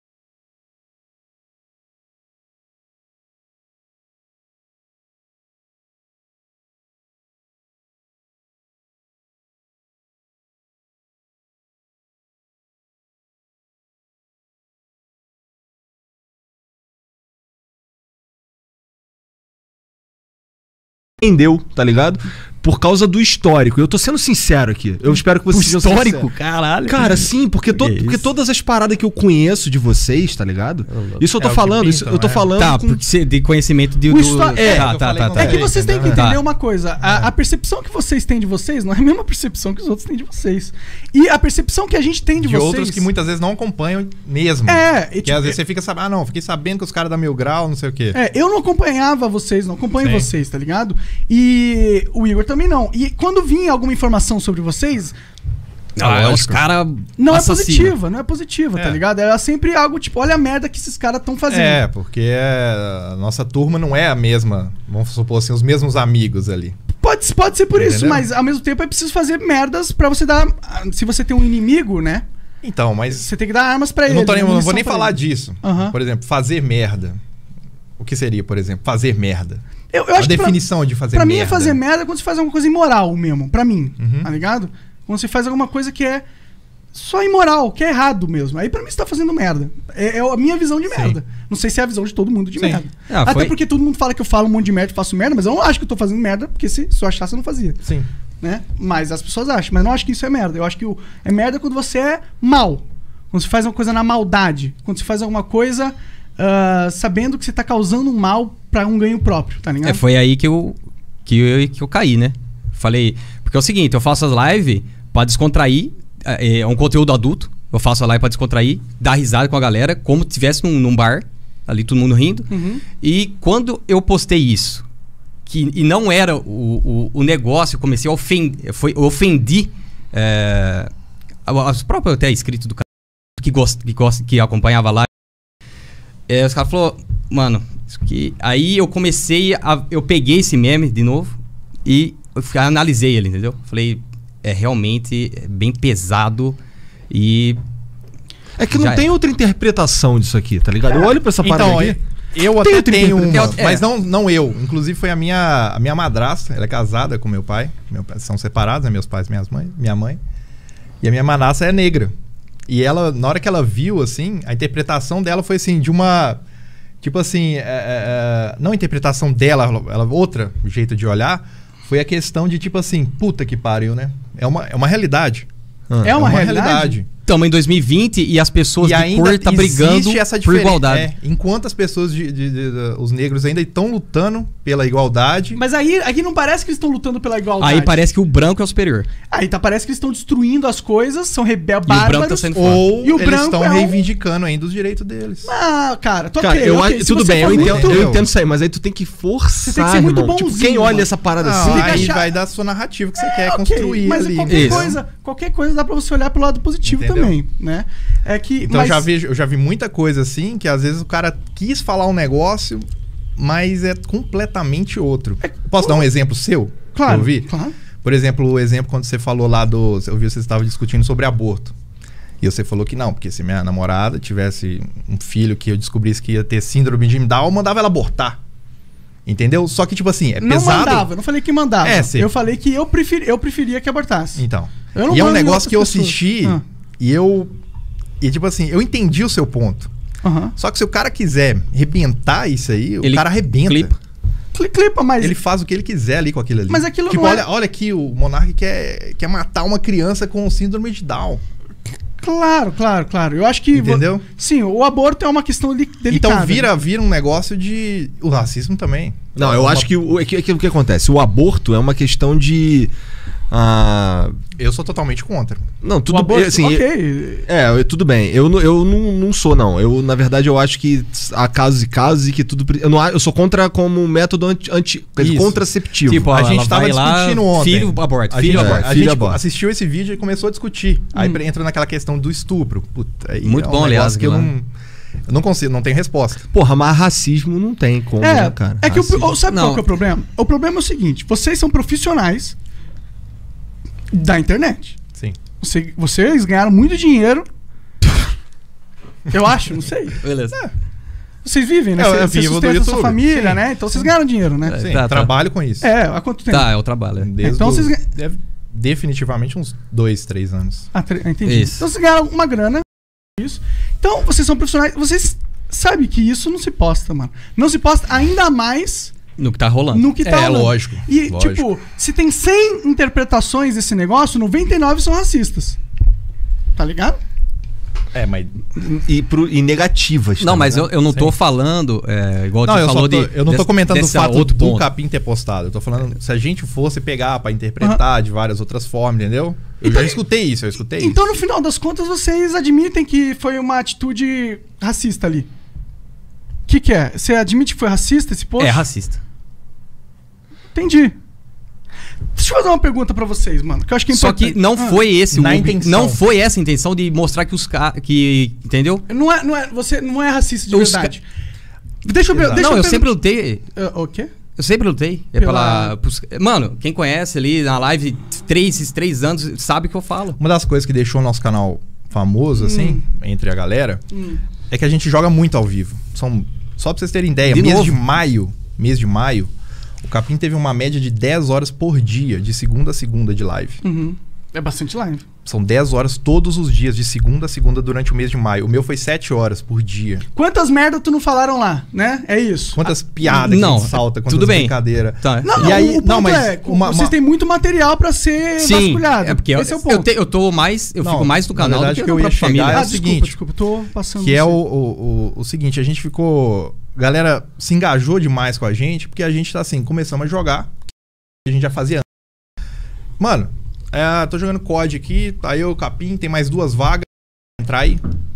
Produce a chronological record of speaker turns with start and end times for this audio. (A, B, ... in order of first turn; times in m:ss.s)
0:21.2-0:26.3 A
0:25.2-0:28.3 B
0:26.9-0:33.0 A
0:30.9-0:31.2 B
0:31.4-0:32.4 C
0:32.6-0:36.4 B
0:34.1-0:43.1 D
0:34.6-0:36.2 C
0:37.0-0:37.3 C
0:42.4-0:48.2 C
0:44.7-0:45.6 D
0:48.1-0:55.2 D
0:50.0-0:50.3 C
0:56.0-0:58.0 B
0:56.0-0:56.6 C
0:57.2-1:01.8 D
1:01.5-1:06.8 C
1:07.0-1:12.2 D
1:07.7-1:08.3 C
1:12.6-1:13.3 C
1:13.1-1:15.9 D
1:14.1-1:17.2 C
1:18.0-1:19.6 C
1:19.9-1:26.2 D
1:20.2-1:21.8 C
1:24.0-1:24.3 C
1:26.9-1:37.8 D
1:30.9-1:31.2 C
1:32.6-1:32.8 C
1:33.1-1:33.5 B
1:38.4-1:50.0 D
1:49.8-2:02.5 B
2:02.5-2:02.8 D
2:03.0-2:04.8 B
2:05.5-2:10.9 B
2:11.5-2:12.8 B
2:13.4-2:15.1 B
2:16.3-2:26.6 B
2:27.1-2:27.6 B
2:28.6-2:32.0 A
2:28.7-2:29.1 B
2:30.9-2:40.2 C
2:32.6-2:33.6 A
2:33.3-2:33.8 B
2:41.0-2:42.1 C
2:42.7-2:46.4 C
2:47.0-2:55.5 C
2:56.0-2:57.1 C
2:56.0-2:57.0 D
2:57.2-3:01.1 B
2:58.8-3:05.6 C
3:05.6-3:08.0 D
3:07.6-3:09.1 B
3:09.3-3:14.0 D
3:11.9-3:12.9 B
3:12.5-3:15.5 C
3:15.4-3:18.1 D
3:16.4-3:22.1 A
3:17.3-3:18.3 C
3:19.6-3:22.4 D
3:21.4-3:25.0 C
3:23.2-3:29.1 D
3:24.5-3:24.9 B
3:26.8-3:27.4 C
3:28.6-3:32.8 C
3:33.4-3:37.5 C
3:35.4-3:36.0 D
3:36.9-3:37.8 D
3:38.0-3:41.7 C
3:42.4-3:48.4 C
3:49.3-3:51.1 C
3:50.4-3:54.4 D
3:51.8-3:52.3 C
3:54.4-3:57.5 C
3:54.9-3:56.6 D
3:58.2-3:59.9 C
4:00.2-4:00.5 D
4:00.6-4:03.9 C
4:03.0-4:04.0 B
4:04.5-4:05.4 D
4:05.2-4:11.4 C
4:06.7-4:07.5 D
4:12.2-4:16.7 D
4:13.7-4:14.2 C
4:16.1-4:19.9 C
4:19.4-4:22.9 A
4:23.5-4:24.4 A
4:24.6-4:25.6 C
4:25.8-4:26.8 A
4:26.1-4:27.5 D
4:27.5-4:36.3 A
4:35.2-4:35.6 C
4:36.0-4:38.9 B
4:36.2-4:44.7 C
4:38.5-4:39.4 A
4:43.4-4:44.5 B
4:45.3-4:46.5 C
4:46.5-4:49.3 A
4:48.2-4:52.6 D
4:49.4-4:49.8 B
4:54.1-4:55.0 D
4:55.6-4:57.5 D
4:59.3-5:00.2 D
5:00.2-5:00.6 B
5:01.4-5:04.8 D
5:02.0-5:04.1 C
5:04.6-5:05.3 B
5:04.8-5:05.9 C
5:05.8-5:06.7 D
5:06.5-5:07.3 B
5:07.2-5:10.9 C
5:07.4-5:08.0 D
5:10.9-5:12.9 D
5:11.4-5:11.8 B
5:13.4-5:19.1 D
5:19.4-5:20.2 B
5:19.9-5:25.8 D
5:20.2-5:21.7 C
5:26.8-5:27.2 D
5:28.1-5:28.6 C
5:28.8-5:30.9 A
5:30.4-5:34.9 B
5:32.6-5:41.2 C
5:39.8-5:40.2 D
5:41.0-5:45.5 D
5:46.7-5:48.9 D
5:48.6-5:49.2 B
5:50.7-5:51.2 D
5:52.4-5:55.0 D
5:54.1-5:59.0 B
5:55.3-5:56.2 C
5:59.1-6:01.2 D
6:00.7-6:01.1 B
6:02.0-6:03.1 D
6:02.3-6:02.7 C
6:02.6-6:03.6 B
6:03.7-6:04.3 D
6:04.6-6:10.4 B
6:05.4-6:06.0 D
6:10.4-6:14.0 C
6:12.6-6:13.0 D
6:14.1-6:14.4 D
6:14.7-6:19.5 C
6:17.5-6:18.0 B
6:20.0-6:23.8 C
6:23.8-6:25.2 D
6:25.4-6:30.2 C
6:30.3-6:32.9 D
6:32.8-6:37.2 C
6:33.3-6:35.8 B
6:35.4-6:40.1 D
6:38.6-6:42.9 B
6:41.0-6:43.4 C
6:42.7-6:44.6 D
6:44.2-6:50.7 C
6:51.5-6:52.0 C
6:53.2-6:57.1 C
6:57.6-6:58.0 C